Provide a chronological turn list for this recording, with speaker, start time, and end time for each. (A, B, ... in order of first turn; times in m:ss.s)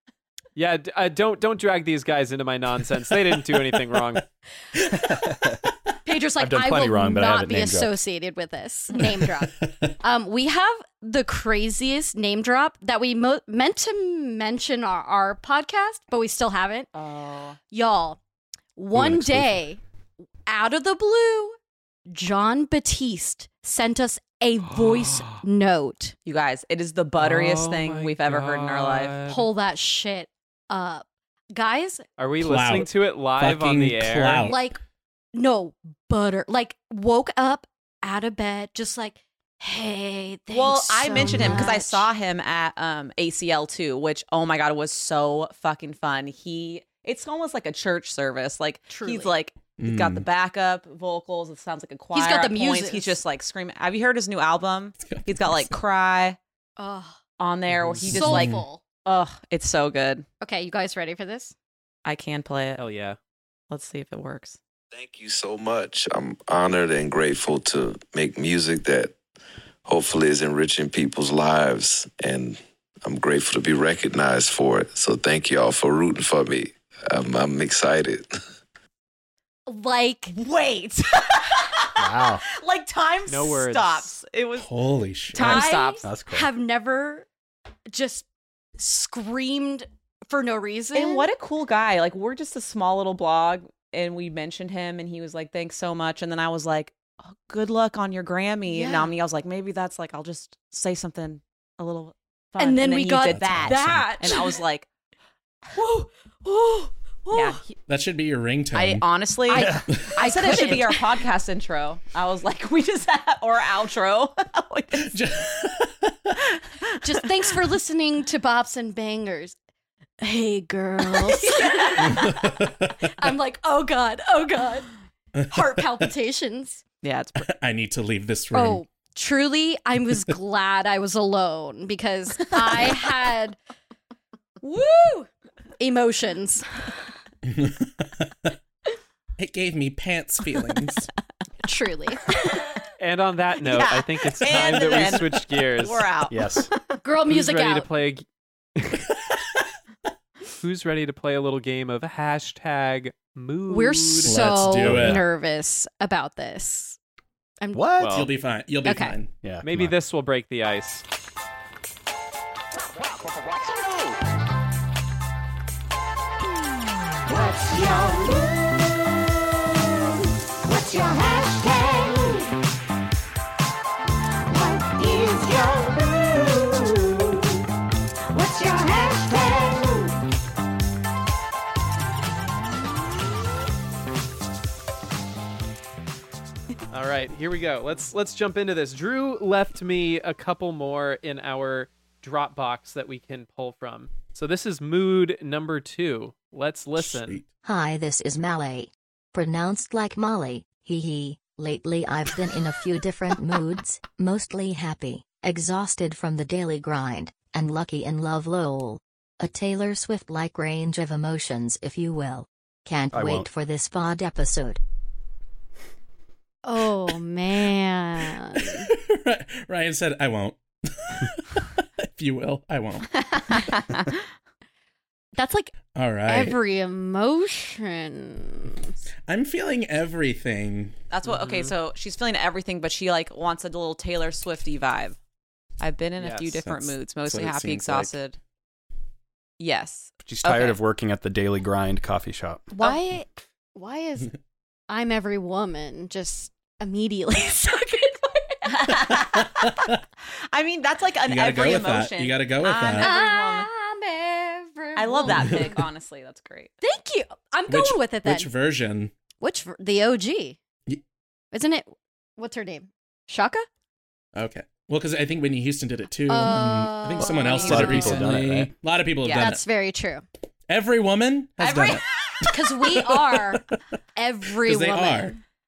0:00.6-0:04.2 A
0:05.0-0:05.6 B
0:06.0-0:16.9 C
0:06.4-0:08.0 B
0:09.0-0:09.9 D
0:16.9-0:17.6 E
0:17.7-0:18.2 C
0:18.8-0:19.8 C
0:18.9-0:19.6 D
0:20.5-0:21.6 C
0:22.1-0:26.2 C
0:24.8-0:25.4 A
0:26.2-0:29.1 E
0:27.2-0:29.5 A
0:29.3-0:32.0 C
0:32.2-0:34.5 A
0:32.4-0:34.6 D
0:34.4-0:34.8 C
0:35.3-0:42.1 C
0:40.5-0:56.4 E
0:41.3-0:41.7 D
0:48.9-0:49.3 C
0:49.8-0:50.3 D
0:52.1-0:53.2 C
0:55.0-0:55.8 D
0:56.8-0:57.2 C
0:57.4-1:00.3 E
0:57.7-0:58.0 A
0:58.1-0:58.6 D
0:58.1-0:58.8 C
1:00.4-1:01.6 C
1:02.0-1:02.8 E
1:02.8-1:03.2 A
1:03.7-1:04.6 E
1:04.9-1:09.2 F
1:09.9-1:18.4 F
1:19.7-1:20.3 C
1:20.3-1:26.0 E
1:22.0-1:22.4 B
1:23.3-1:24.2 A
1:24.6-1:25.7 D
1:25.4-1:27.3 C
1:26.0-1:26.5 B
1:27.9-1:28.2 C
1:28.8-1:31.3 C
1:31.0-1:44.9 E
1:38.7-1:39.1 C
1:42.6-1:44.6 C
1:43.3-1:44.2 D
1:45.7-1:47.6 C
1:47.3-1:47.8 E
1:47.9-1:49.0 D
1:48.7-1:55.2 E
1:49.5-1:51.2 C
1:55.0-1:56.3 D
1:57.0-1:59.6 C
2:00.2-2:02.5 C
2:01.0-2:02.4 E
2:02.0-2:03.1 D
2:03.0-2:04.9 C
2:05.4-2:05.8 D
2:05.5-2:06.8 C
2:07.0-2:07.5 E
2:07.4-2:08.8 D
2:08.5-2:13.6 C
2:14.6-2:16.9 C
2:17.5-2:18.6 D
2:19.4-2:21.1 D
2:21.6-2:22.5 C
2:23.0-2:26.1 A
2:23.6-2:26.7 E
2:26.3-2:26.7 B
2:27.0-2:27.9 C
2:27.3-2:28.2 A
2:28.8-2:29.0 A
2:30.6-2:34.3 A
2:33.7-2:37.0 C
2:34.2-2:35.2 D
2:34.8-2:35.2 B
2:37.7-2:38.3 B
2:38.0-2:38.3 A
2:38.1-2:39.4 D
2:38.8-2:39.2 C
2:39.4-2:39.9 B
2:39.6-2:41.0 A
2:50.9-2:52.1 E
2:55.2-2:55.6 E
3:06.9-3:17.4 A
3:17.0-3:17.5 D
3:17.6-3:34.8 G
3:33.1-3:33.5 B
3:36.6-3:38.9 C
3:38.6-3:43.1 D
3:43.2-3:44.2 E
3:45.4-3:45.7 C
3:45.9-3:46.6 D
3:46.3-3:48.9 C
3:49.3-3:51.0 D
3:51.1-3:55.2 E
3:51.2-3:51.7 A
3:55.8-3:58.4 E
3:56.2-3:56.5 A
3:56.6-3:58.2 D
3:59.6-4:00.8 E
4:00.2-4:02.7 B
4:02.7-4:04.3 C
4:04.9-4:08.9 C
4:08.7-4:09.7 E
4:09.6-4:10.0 D
4:10.5-4:13.7 E
4:11.3-4:13.1 D
4:13.0-4:15.8 C
4:15.0-4:16.7 E
4:15.3-4:15.7 D
4:16.8-4:18.5 C
4:17.7-4:19.1 D
4:19.4-4:20.6 C
4:21.5-4:23.7 C
4:24.4-4:29.6 D
4:26.3-4:28.0 C
4:27.2-4:28.3 E
4:27.6-4:28.7 B
4:29.2-4:29.5 E
4:29.3-4:30.2 C
4:30.7-4:33.8 D
4:31.6-4:32.0 E
4:32.5-4:33.6 C
4:34.2-4:35.4 C
4:34.6-4:35.4 D